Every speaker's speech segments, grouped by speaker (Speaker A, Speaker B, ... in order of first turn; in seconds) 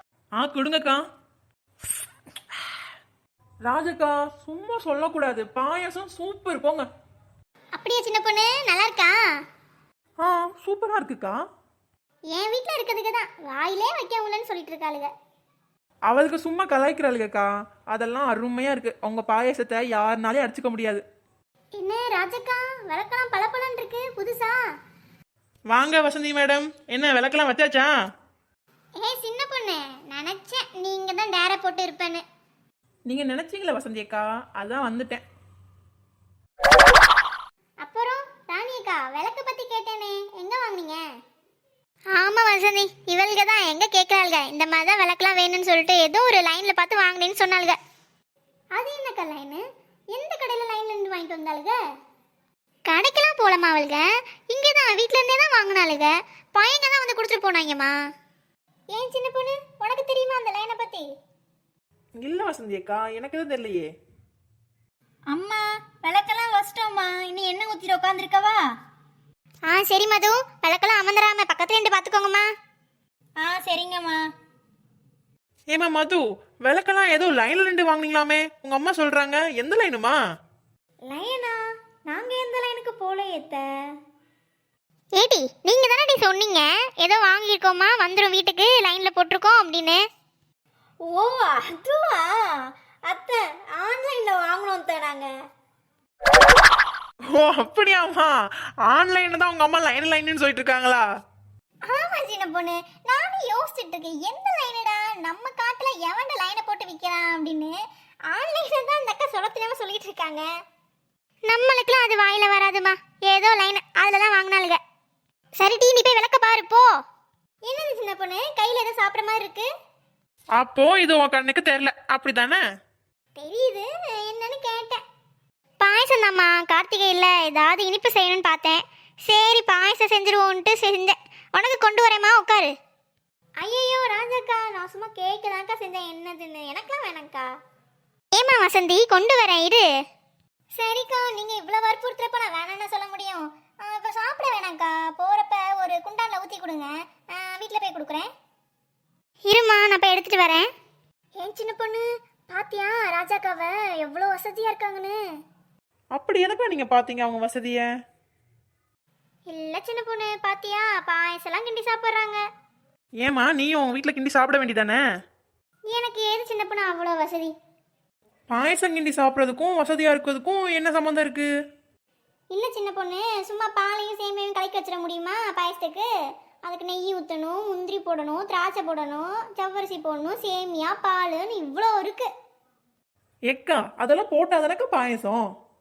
Speaker A: 0.4-1.0, 3.6-6.8, 10.2-11.4, 16.1-21.0, 25.7-27.9, 33.1-35.2, 62.2-63.9, 75.7-80.2, 97.3-98.3, 98.8-101.0, 120.6-122.6, 156.1-157.8, 163.2-165.0, 168.5-171.5, 183.5-185.4
Speaker B: 7.8-9.2, 12.3-15.1, 21.8-24.6, 29.0-32.2, 37.8-41.0, 42.1-47.8, 48.8-51.8, 52.9-57.9, 58.9-61.1, 67.6-68.2, 69.7-72.5, 85.2-90.0, 101.9-107.7, 108.3-110.4, 111.5-114.8, 115.6-116.9, 117.7-119.7, 123.3-125.0, 125.8-132.7, 133.6-137.5, 138.3-139.8, 140.8-148.3, 149.5-150.7, 151.4-155.2, 159.5-162.4, 165.9-167.5, 172.5-176.1, 176.6-182.3
Speaker C: 65.3-68.5, 73.4-74.2, 81.1-81.6, 82.1-83.7, 91.0-92.4, 93.1-95.3